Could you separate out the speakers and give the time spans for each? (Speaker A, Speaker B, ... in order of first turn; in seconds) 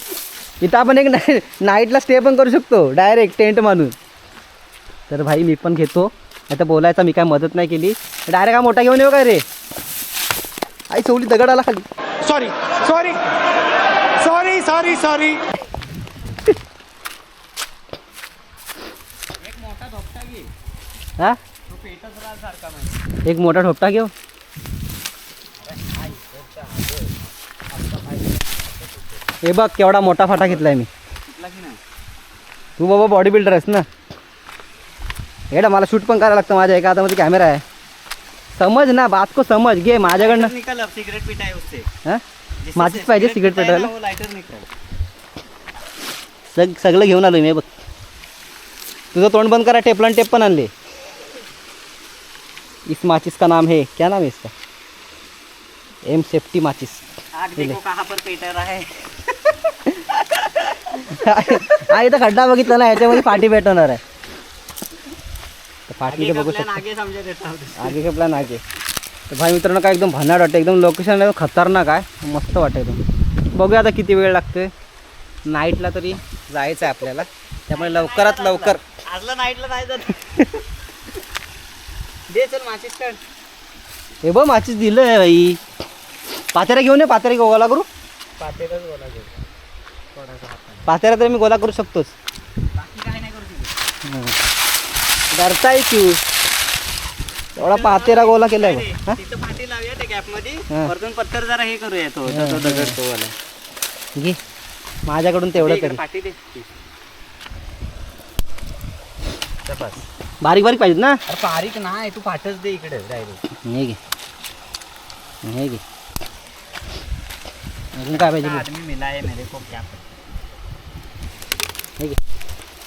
Speaker A: 0.6-3.9, 5.1-9.4, 10.9-11.9, 23.2-24.1, 29.4-30.9, 32.8-33.9, 35.5-37.6, 38.5-40.5, 42.7-43.9, 46.5-47.7, 49.1-50.7, 52.9-54.5, 56.0-57.8, 60.9-64.0, 65.9-66.8, 67.7-68.6, 69.3-74.7, 75.5-78.8, 84.2-85.6, 86.5-87.9, 90.8-92.2, 94.0-94.4, 95.3-96.2, 97.5-99.2, 102.2-103.0, 105.0-106.0, 110.4-111.2, 113.6-114.0, 115.4-115.8, 117.9-118.6
Speaker B: 12.3-13.2, 14.2-15.4
Speaker C: 19.4-20.5, 21.7-23.0, 25.6-29.2, 30.3-30.6, 31.3-31.8, 40.1-41.9, 42.6-44.7, 57.3-59.8, 60.3-60.6, 61.5-61.8, 66.0-68.0, 77.7-80.2, 82.3-83.2, 88.4-89.4, 90.1-90.8, 92.8-93.7, 97.6-103.3, 105.6-106.7, 109.6-110.0, 111.3-113.4, 118.1-120.0